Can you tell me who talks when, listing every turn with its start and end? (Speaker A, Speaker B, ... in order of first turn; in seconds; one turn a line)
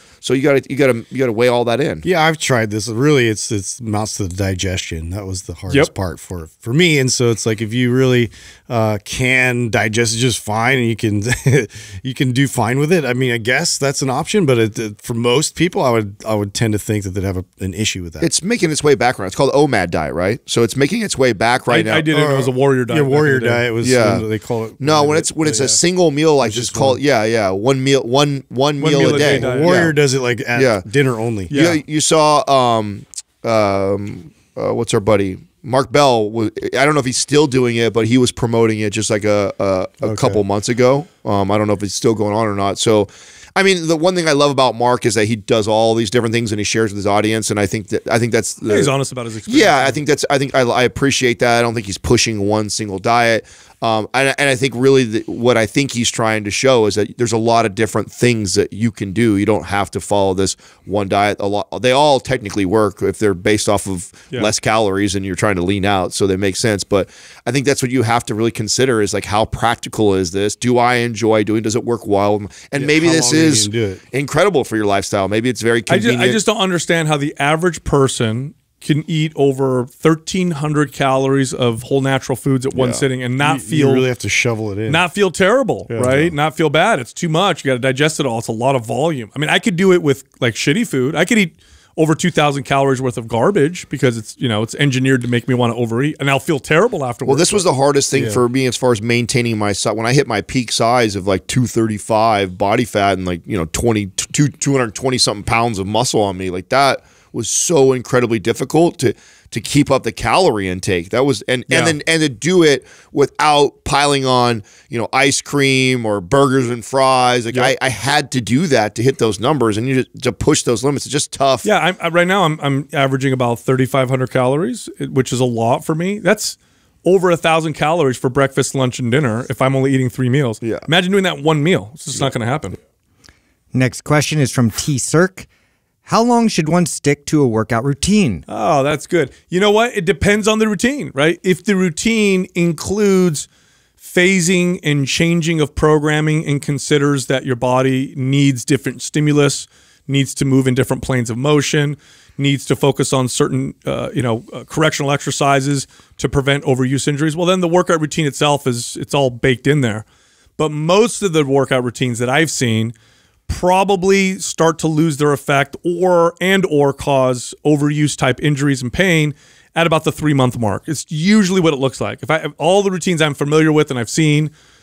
Speaker A: 0.2-2.0
Speaker B: 2.0-18.3
Speaker A: 18.2-22.1
Speaker C: 21.7-23.6
Speaker B: 22.1-25.8
Speaker A: 23.8-24.2
Speaker A: 24.8-29.9
Speaker B: 26.4-27.0
Speaker C: 28.8-29.8
Speaker B: 29.0-31.5
Speaker A: 30.5-30.8
Speaker C: 31.5-31.8
Speaker A: 31.5-48.9
Speaker B: 40.0-40.4
Speaker C: 48.7-50.0
Speaker A: 49.5-76.4
Speaker B: 72.7-74.0
Speaker C: 75.9-84.0
Speaker A: 82.7-83.0
Speaker B: 83.4-85.0
Speaker C: 84.9-97.6
Speaker B: 85.9-86.3
Speaker A: 97.3-121.7
Speaker B: 98.1-98.4
Speaker C: 111.7-112.0
Speaker C: 121.6-132.8
Speaker D: 133.7-135.5
Speaker D: 136.1-138.4
Speaker C: 138.5-143.5
Speaker C: 144.0-160.0
Speaker C: 160.6-162.9
Speaker C: 163.5-174.5